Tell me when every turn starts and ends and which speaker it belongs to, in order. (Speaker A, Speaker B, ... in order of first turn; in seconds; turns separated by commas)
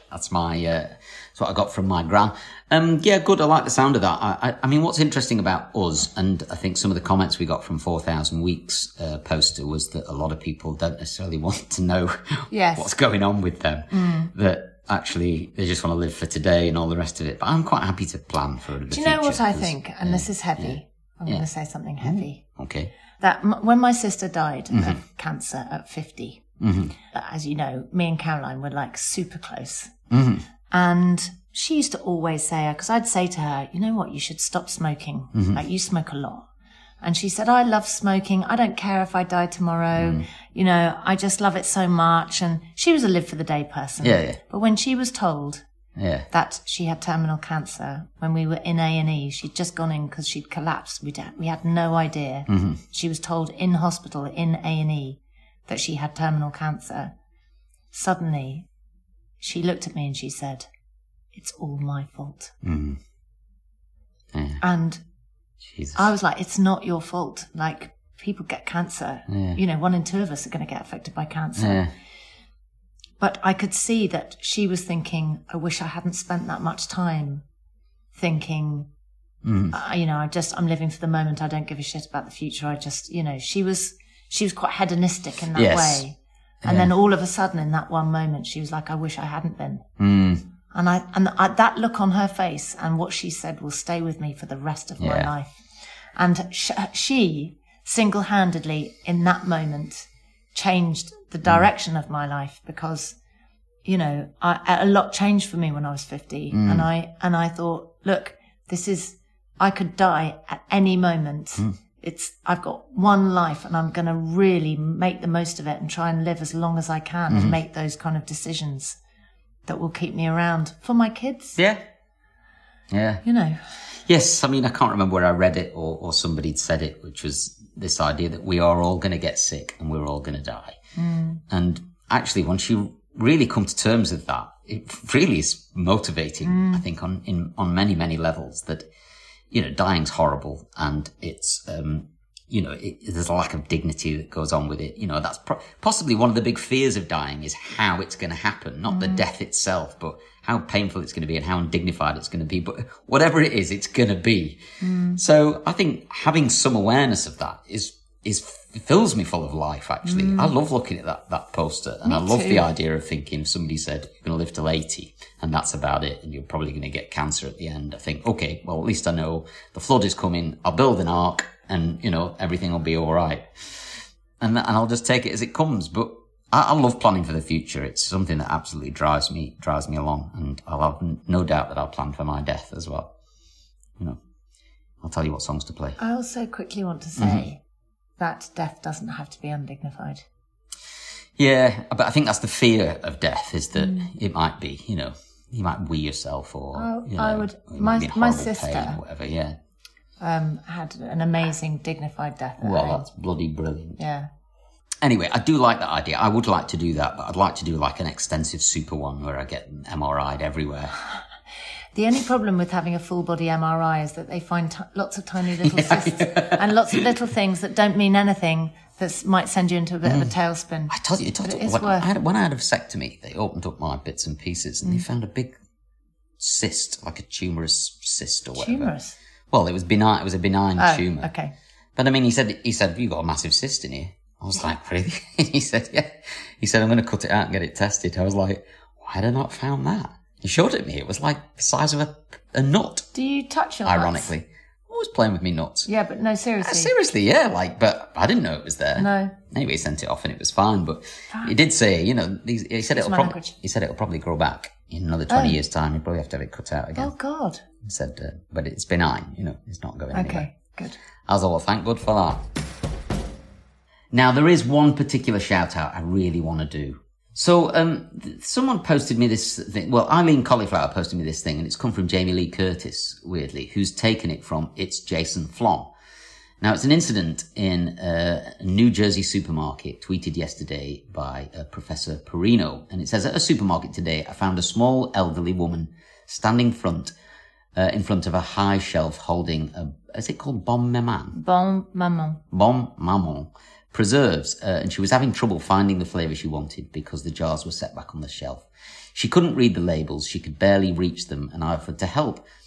Speaker A: 0.1-21.4, Speaker B: 12.5-12.9, Speaker B: 13.9-14.3, Speaker B: 18.9-22.4, Speaker A: 22.0-22.9, Speaker B: 23.2-26.4, Speaker A: 24.7-25.0, Speaker A: 26.6-26.9, Speaker B: 27.1-29.9, Speaker A: 30.1-30.4, Speaker B: 30.7-36.5, Speaker A: 35.3-35.6, Speaker B: 37.0-45.6, Speaker A: 40.0-40.2, Speaker A: 44.0-44.4, Speaker A: 46.0-46.3, Speaker B: 46.3-57.1, Speaker A: 52.5-52.8, Speaker B: 57.9-58.6, Speaker B: 59.4-60.7, Speaker B: 61.3-62.5, Speaker A: 62.6-63.0, Speaker A: 64.3-64.6, Speaker B: 64.6-65.0, Speaker A: 65.7-66.1, Speaker B: 65.9-71.8, Speaker A: 69.3-69.6, Speaker A: 71.6-71.9, Speaker B: 73.2-77.4, Speaker B: 78.1-78.9, Speaker A: 79.4-79.7, Speaker B: 79.7-89.8, Speaker A: 85.5-86.0, Speaker A: 86.6-86.9, Speaker A: 90.0-90.4, Speaker B: 90.7-95.6, Speaker A: 95.0-95.3, Speaker B: 96.2-103.2, Speaker B: 103.8-119.0, Speaker A: 106.5-106.9, Speaker A: 117.3-117.6, Speaker B: 119.7-121.6, Speaker A: 122.9-123.2, Speaker B: 123.2-123.6, Speaker A: 124.1-130.8, Speaker B: 130.9-131.4, Speaker A: 131.5-138.8, Speaker B: 136.4-136.8, Speaker A: 139.5-154.6, Speaker B: 148.9-149.2, Speaker B: 154.8-155.2, Speaker A: 155.1-183.1, Speaker B: 160.0-160.5, Speaker B: 162.0-162.7, Speaker A: 185.0-186.0, Speaker B: 186.0-187.6, Speaker A: 187.2-187.4, Speaker B: 188.2-190.2, Speaker A: 191.4-199.6, Speaker B: 193.7-194.1, Speaker B: 196.7-199.0, Speaker B: 200.2-203.1, Speaker A: 202.6-204.0, Speaker B: 204.0-204.3, Speaker A: 205.0-211.0, Speaker B: 211.9-222.1, Speaker A: 215.6-217.1, Speaker A: 220.1-220.3, Speaker A: 220.9-225.5, Speaker A: 226.4-228.9, Speaker B: 228.6-229.1, Speaker A: 229.5-231.3, Speaker B: 230.8-231.5, Speaker A: 231.9-243.1, Speaker B: 243.1-244.3, Speaker A: 243.8-245.9, Speaker B: 245.8-246.9, Speaker A: 246.6-257.1, Speaker B: 248.9-249.3, Speaker B: 251.3-251.6, Speaker B: 252.9-253.5, Speaker B: 255.3-255.6, Speaker B: 256.9-257.6, Speaker A: 257.8-260.5, Speaker B: 260.1-261.0, Speaker A: 261.3-262.4, Speaker A: 264.1-275.9, Speaker A: 276.6-287.1, Speaker A: 287.8-291.4, Speaker B: 291.3-292.4, Speaker A: 292.5-302.4